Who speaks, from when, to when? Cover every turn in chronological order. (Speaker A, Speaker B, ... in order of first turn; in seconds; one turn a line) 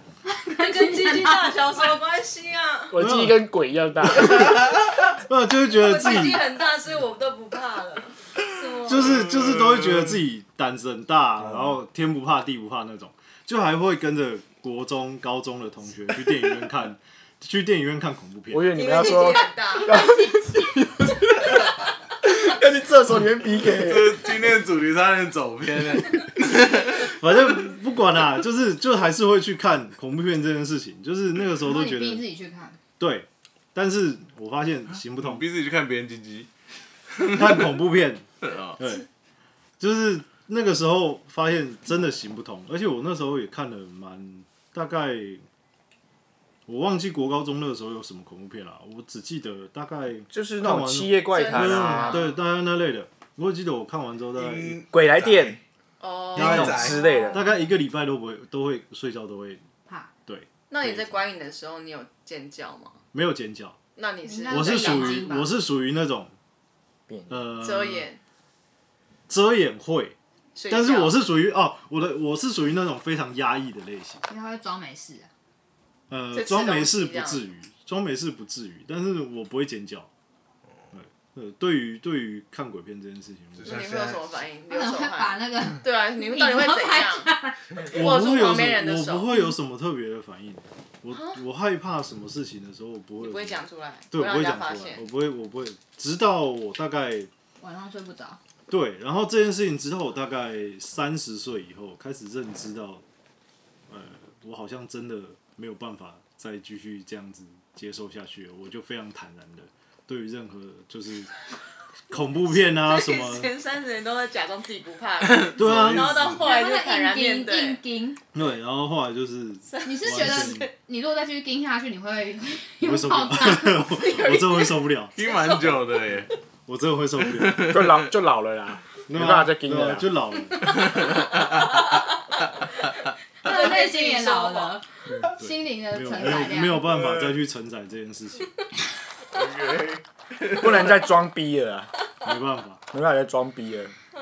Speaker A: 0.3-1.5
Speaker B: 0.5-3.0
Speaker C: 2.9-4.7
Speaker D: 3.0-3.4
Speaker D: 4.1-6.5
Speaker B: 5.7-9.2
Speaker D: 8.9-18.9
Speaker E: 9.0-10.1
Speaker C: 18.5-24.3
Speaker B: 18.7-20.5
Speaker E: 23.7-27.1
Speaker D: 27.1-32.2
Speaker A: 31.6-32.8
Speaker D: 33.0-35.5
Speaker E: 35.2-36.5
Speaker E: 37.1-37.6
Speaker D: 37.3-39.1
Speaker E: 38.4-38.8
Speaker D: 39.8-45.4
Speaker D: 46.7-54.8
Speaker C: 50.3-52.3
Speaker B: 51.3-52.4
Speaker E: 54.4-55.6
Speaker C: 54.9-55.6
Speaker B: 56.0-56.9
Speaker D: 56.4-59.6
Speaker E: 56.4-57.0
Speaker C: 56.4-57.4
Speaker A: 56.8-57.6
Speaker A: 59.9-60.1
Speaker D: 60.3-61.2
Speaker B: 60.7-63.0
Speaker D: 63.1-63.8
Speaker B: 64.0-65.5
Speaker A: 64.2-65.5
Speaker D: 64.5-66.3
Speaker C: 67.1-67.5
Speaker D: 67.3-68.1
Speaker B: 67.6-68.2
Speaker D: 69.3-70.2
Speaker B: 70.6-71.2
Speaker D: 70.7-74.2
Speaker A: 74.3-75.3
Speaker D: 76.1-80.1
Speaker B: 76.3-77.5
Speaker D: 80.9-83.9
Speaker E: 83.6-84.4
Speaker B: 83.6-89.3
Speaker A: 84.7-87.6
Speaker D: 87.8-97.3
Speaker B: 91.1-91.4
Speaker B: 93.2-95.0
Speaker A: 97.6-98.4
Speaker D: 98.7-103.0
Speaker D: 103.9-111.4
Speaker D: 112.1-113.5
Speaker B: 112.5-117.8
Speaker E: 115.2-116.3
Speaker D: 115.6-116.4
Speaker A: 116.3-118.2
Speaker D: 118.3-120.7
Speaker B: 119.7-120.7
Speaker A: 119.8-123.9
Speaker D: 122.8-125.2
Speaker B: 123.9-124.7
Speaker E: 125.2-126.3
Speaker B: 125.3-125.6
Speaker D: 126.7-127.9
Speaker E: 127.3-128.1
Speaker C: 127.7-130.1
Speaker D: 129.1-130.9
Speaker E: 130.9-131.2
Speaker B: 133.4-134.8
Speaker A: 133.4-136.9
Speaker D: 135.2-138.5
Speaker E: 136.9-137.4
Speaker E: 139.3-140.9
Speaker C: 140.5-141.9
Speaker D: 142.2-142.8
Speaker C: 142.9-143.9